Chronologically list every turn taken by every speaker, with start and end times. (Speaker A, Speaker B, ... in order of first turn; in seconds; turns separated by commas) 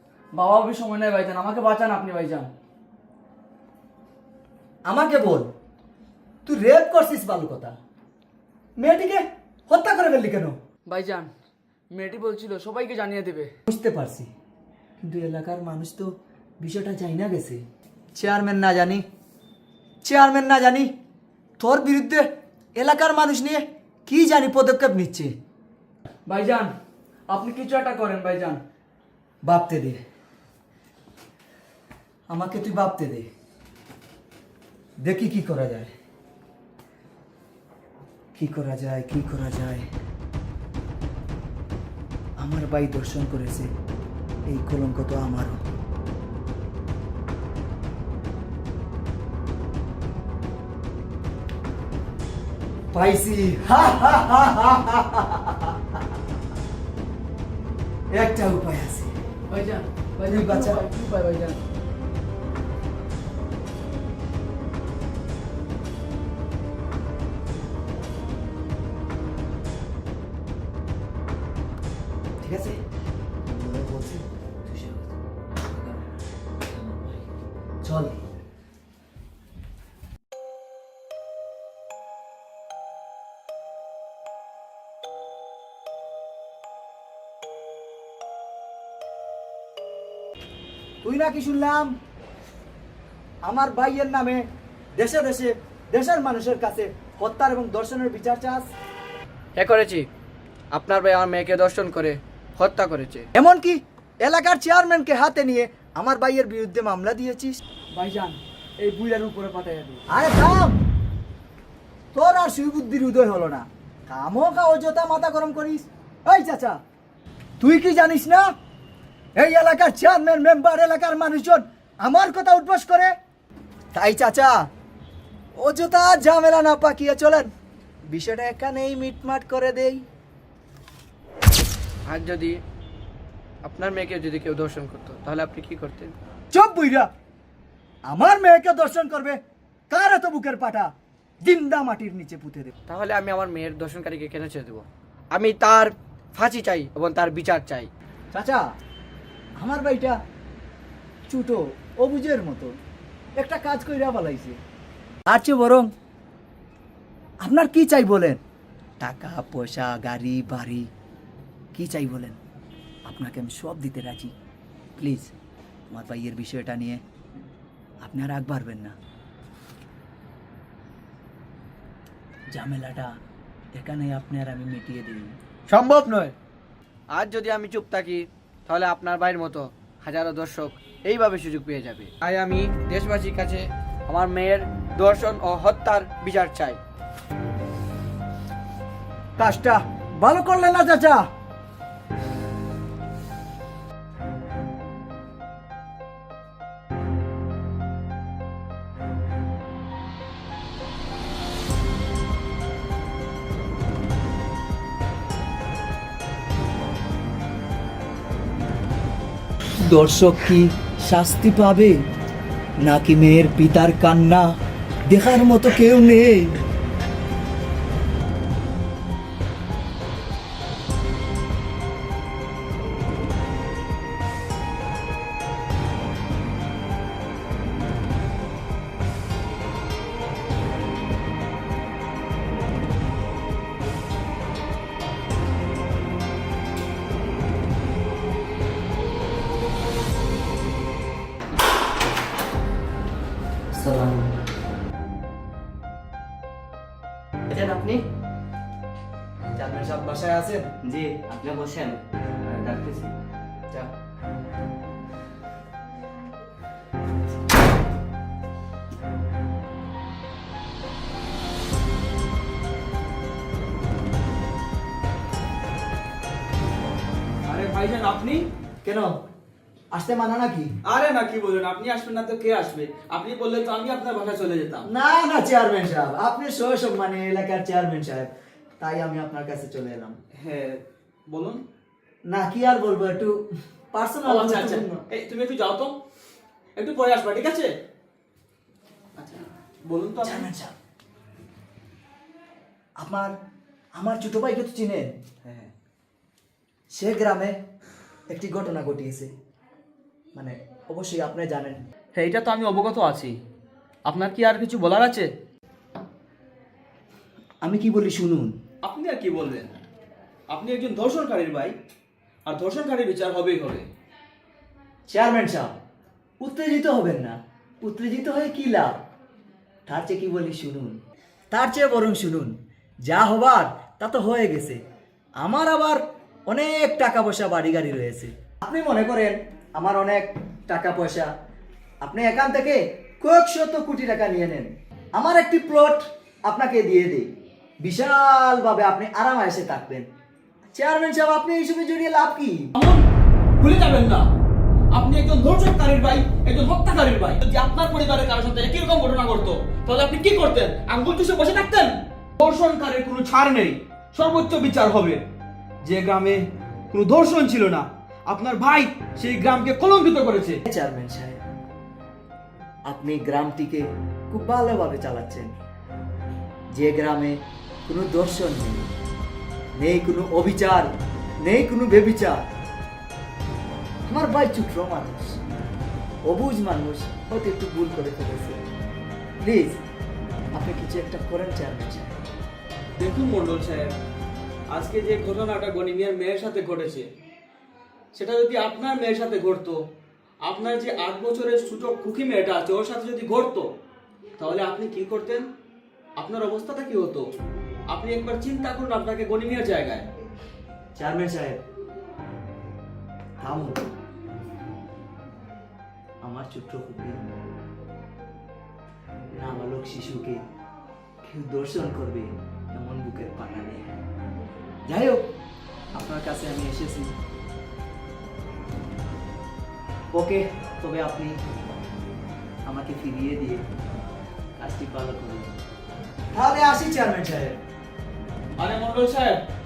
Speaker A: 0.3-2.5, Speaker B: 4.8-5.5, Speaker B: 6.4-7.7, Speaker B: 8.8-10.6, Speaker A: 10.8-11.3, Speaker A: 11.9-13.5, Speaker B: 13.7-14.3, Speaker B: 15.0-17.6, Speaker B: 18.1-19.1, Speaker B: 20.0-20.9, Speaker B: 21.6-25.3, Speaker A: 26.2-26.7, Speaker A: 27.3-28.6, Speaker B: 29.4-30.0, Speaker B: 32.3-33.3, Speaker B: 35.0-35.9, Speaker B: 38.4-39.9, Speaker B: 42.4-43.7, Speaker B: 44.5-45.6, Speaker B: 52.9-56.0, Speaker B: 58.1-59.1, Speaker A: 59.5-61.6, Speaker B: 60.2-60.8, Speaker B: 72.4-72.8, Speaker B: 73.5-77.2, Speaker B: 77.8-78.2, Speaker B: 91.0-91.9, Speaker B: 93.4-98.7, Speaker A: 99.5-100.1, Speaker A: 100.7-103.3, Speaker B: 103.3-107.6, Speaker A: 107.9-110.0, Speaker B: 110.1-110.8, Speaker B: 112.1-116.8, Speaker B: 117.6-118.5, Speaker B: 119.3-123.1, Speaker B: 123.9-124.7, Speaker B: 125.5-127.5, Speaker B: 128.1-130.0, Speaker A: 132.1-132.6, Speaker A: 133.6-136.2, Speaker B: 136.5-137.1, Speaker B: 138.1-140.9, Speaker B: 141.4-142.7, Speaker A: 142.9-147.9, Speaker B: 148.3-148.6, Speaker B: 149.6-150.2, Speaker B: 151.3-152.7, Speaker B: 153.4-154.6, Speaker B: 155.3-155.9, Speaker B: 157.4-158.4, Speaker B: 159.0-160.9, Speaker B: 161.7-162.4, Speaker B: 163.1-164.3, Speaker B: 165.0-165.3, Speaker B: 165.9-167.0, Speaker B: 168.0-168.9, Speaker B: 172.5-173.1, Speaker B: 173.7-175.3, Speaker A: 175.7-176.3, Speaker A: 177.1-186.8, Speaker B: 189.4-191.2, Speaker B: 209.8-212.0, Speaker B: 212.8-214.5, Speaker B: 215.1-216.6, Speaker C: 243.7-244.3, Speaker C: 247.5-248.0, Speaker B: 249.5-250.7, Speaker C: 250.8-253.1, Speaker D: 267.4-268.5, Speaker B: 268.8-269.2, Speaker B: 269.9-270.7, Speaker D: 270.8-274.9, Speaker B: 274.9-280.2, Speaker D: 280.3-281.6, Speaker B: 282.2-283.4, Speaker B: 283.9-285.0, Speaker D: 284.2-286.0, Speaker D: 286.8-287.7, Speaker D: 289.2-290.5, Speaker B: 290.2-290.7, Speaker B: 293.0-293.3, Speaker B: 293.9-295.1, Speaker D: 295.4-295.7, Speaker B: 296.9-297.6, Speaker B: 298.3-299.3, Speaker B: 300.4-301.8, Speaker D: 302.1-303.4, Speaker D: 304.1-305.3, Speaker B: 307.6-308.6, Speaker D: 308.8-309.8, Speaker D: 310.5-311.8, Speaker D: 312.4-313.9, Speaker B: 315.1-315.8, Speaker B: 316.4-319.0, Speaker B: 319.9-321.0, Speaker B: 321.5-324.8, Speaker B: 325.4-331.3, Speaker B: 332.0-340.1, Speaker B: 340.7-342.7, Speaker D: 342.8-343.1, Speaker D: 343.6-344.3, Speaker D: 344.9-355.2, Speaker D: 355.8-360.6, Speaker B: 360.7-361.4, Speaker B: 362.9-365.5, Speaker B: 366.7-368.9, Speaker B: 369.8-370.9, Speaker B: 371.4-372.4, Speaker B: 374.1-375.4, Speaker B: 376.2-378.6, Speaker B: 379.4-379.8, Speaker B: 380.5-382.2, Speaker D: 382.9-383.9, Speaker D: 384.7-387.1, Speaker D: 388.1-389.8, Speaker D: 390.4-393.7, Speaker D: 394.4-395.5, Speaker D: 396.2-397.3, Speaker D: 397.9-400.1, Speaker B: 400.9-401.6, Speaker B: 403.4-403.9, Speaker B: 406.2-407.2, Speaker B: 409.4-410.4, Speaker B: 411.2-413.9, Speaker B: 414.9-415.2, Speaker B: 415.9-417.1, Speaker B: 420.1-421.4, Speaker B: 422.6-423.6, Speaker B: 424.6-425.6, Speaker B: 426.3-427.6, Speaker D: 428.6-429.4